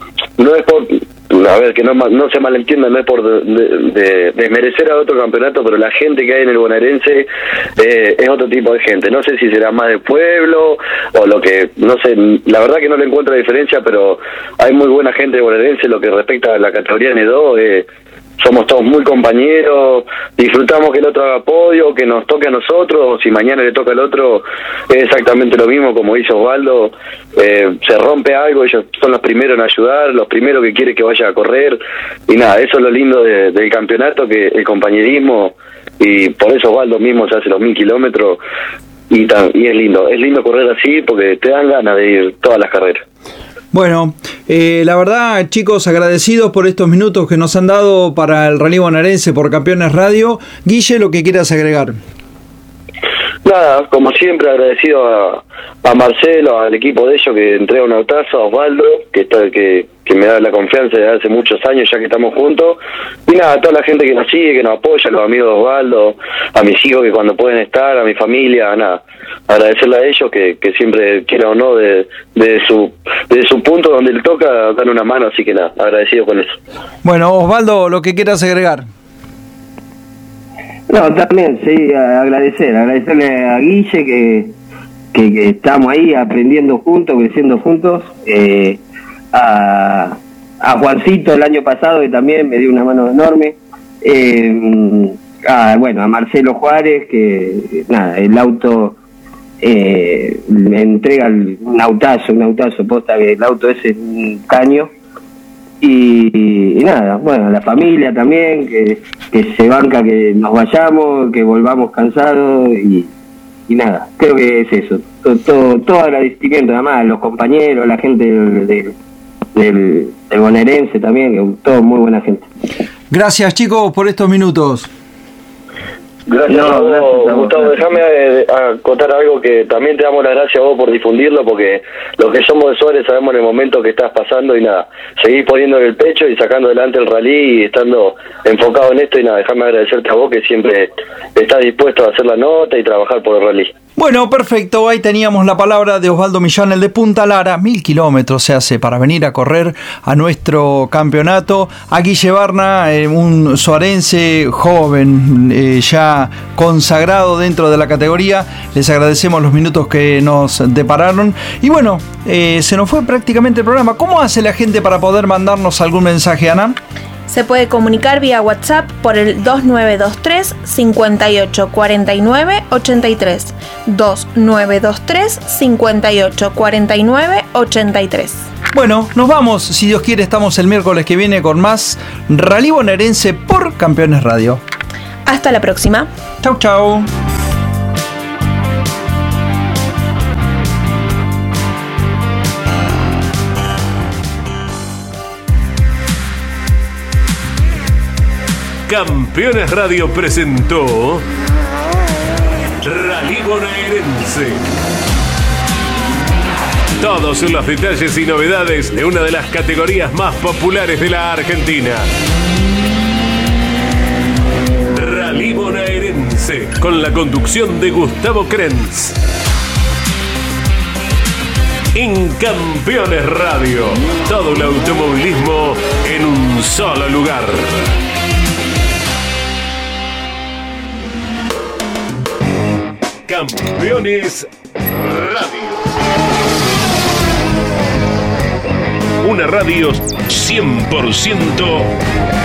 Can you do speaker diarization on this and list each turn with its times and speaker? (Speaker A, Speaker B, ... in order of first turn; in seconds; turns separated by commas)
Speaker A: 0.4-17.9, Speaker A: 18.4-38.4, Speaker A: 39.1-43.0, Speaker B: 43.7-52.0, Speaker A: 53.5-76.6, Speaker B: 77.0-78.9, Speaker C: 80.9-84.5, Speaker C: 85.1-88.8, Speaker C: 89.3-99.0, Speaker C: 99.6-104.9, Speaker C: 105.8-113.1, Speaker C: 113.7-118.9, Speaker C: 119.5-122.5, Speaker B: 123.1-124.9, Speaker A: 126.3-143.7, Speaker C: 126.5-128.0, Speaker B: 144.0-166.8, Speaker D: 167.3-178.5, Speaker B: 178.7-184.6, Speaker D: 185.2-186.1, Speaker B: 186.4-187.1, Speaker E: 198.9-201.2, Speaker E: 202.8-204.6, Speaker E: 207.0-212.1, Speaker E: 214.9-219.2, Speaker E: 221.9-228.0, Speaker E: 233.3-235.9, Speaker E: 239.2-241.9